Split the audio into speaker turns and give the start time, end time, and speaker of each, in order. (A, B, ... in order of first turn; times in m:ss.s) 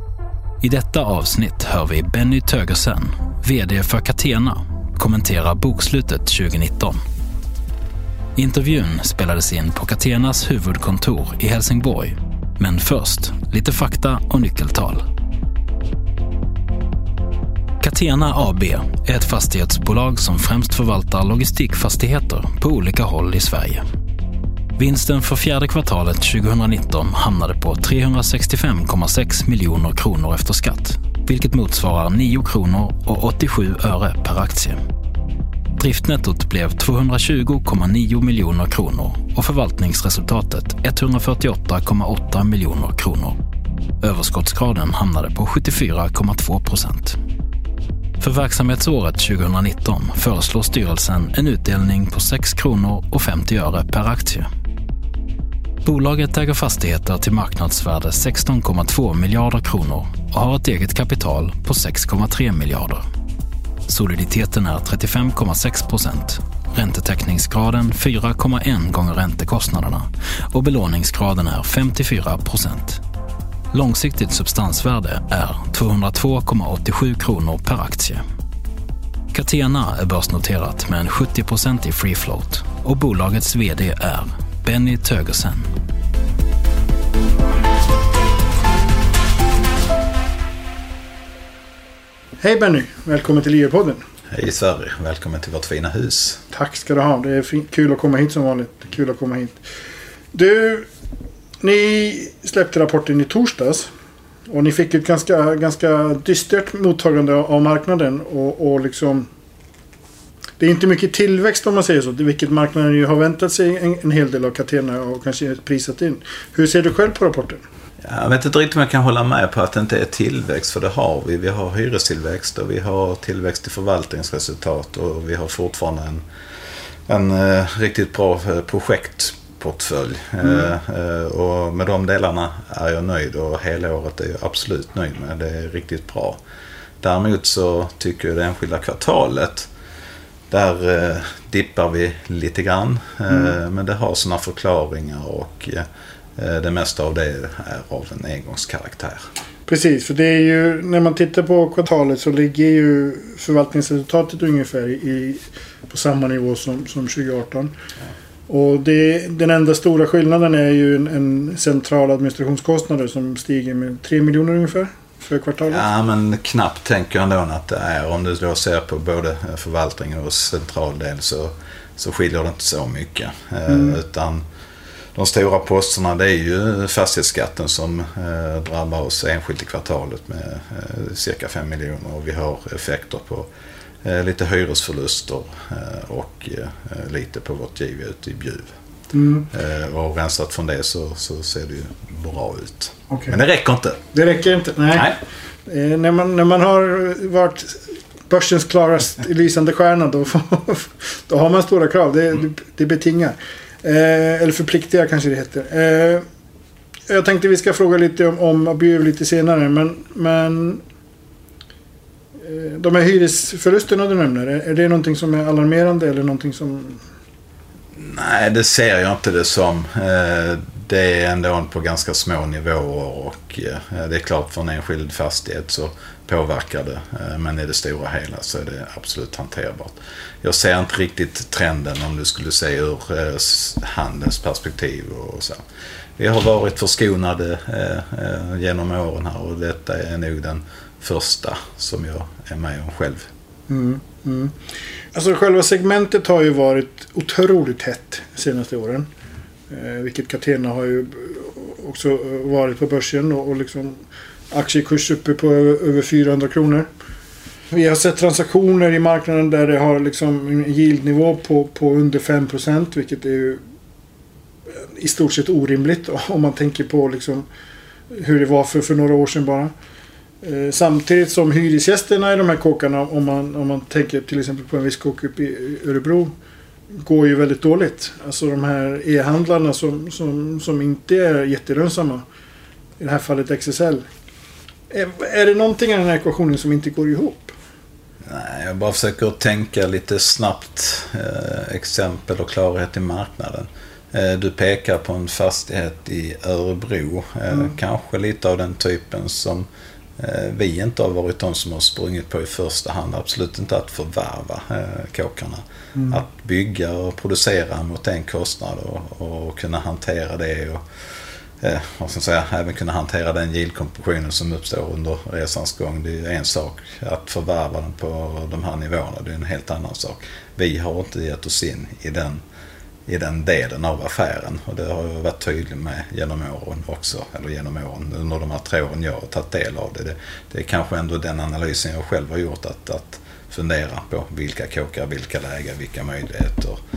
0:00.6-0:07.0 A
0:08.4-0:15.0 A
0:17.8-0:23.8 A
0:24.8-0:34.8 A
0:35.8-0:43.4 A
0:44.0-0:47.2 A
0:48.2-0:54.5 A
0:55.8-1:03.0 A
1:03.9-1:13.0 A
1:13.7-1:18.2 A
1:19.3-1:25.7 A
1:32.4-1:34.0 B
1:34.3-1:36.4 C
1:36.5-1:39.6 B
1:40.3-1:40.9 B
1:41.6-1:43.9 B
1:44.5-1:49.3 B
1:50.6-1:57.6 B
1:58.0-2:06.2 C
2:07.1-2:16.4 C
2:17.0-2:19.7 C
2:20.5-2:25.8 C
2:26.4-2:29.2 C
2:29.7-2:37.7 B
2:38.5-2:45.8 B
2:45.7-2:54.4 C
2:55.2-3:03.5 C
3:04.0-3:08.7 C
3:09.1-3:09.5 B
3:09.5-3:14.0 C
3:13.1-3:13.4 B
3:14.1-3:15.1 B
3:15.7-3:26.2 B
3:27.1-3:30.8 B
3:32.4-3:37.0 B
3:38.0-3:55.6 C
3:56.2-4:03.3 C
4:03.7-4:04.6 B
4:05.1-4:09.1 B
4:09.7-4:16.9 B
4:17.7-4:23.6 B
4:24.9-4:27.5 B
4:28.1-4:29.7 B
4:30.4-4:36.3 B
4:37.0-4:42.2 B
4:43.0-4:44.1 B
4:44.9-4:47.6 B
4:48.3-4:59.7 C
5:00.2-5:10.8 C
5:11.6-5:22.4 C
5:23.1-5:36.8 C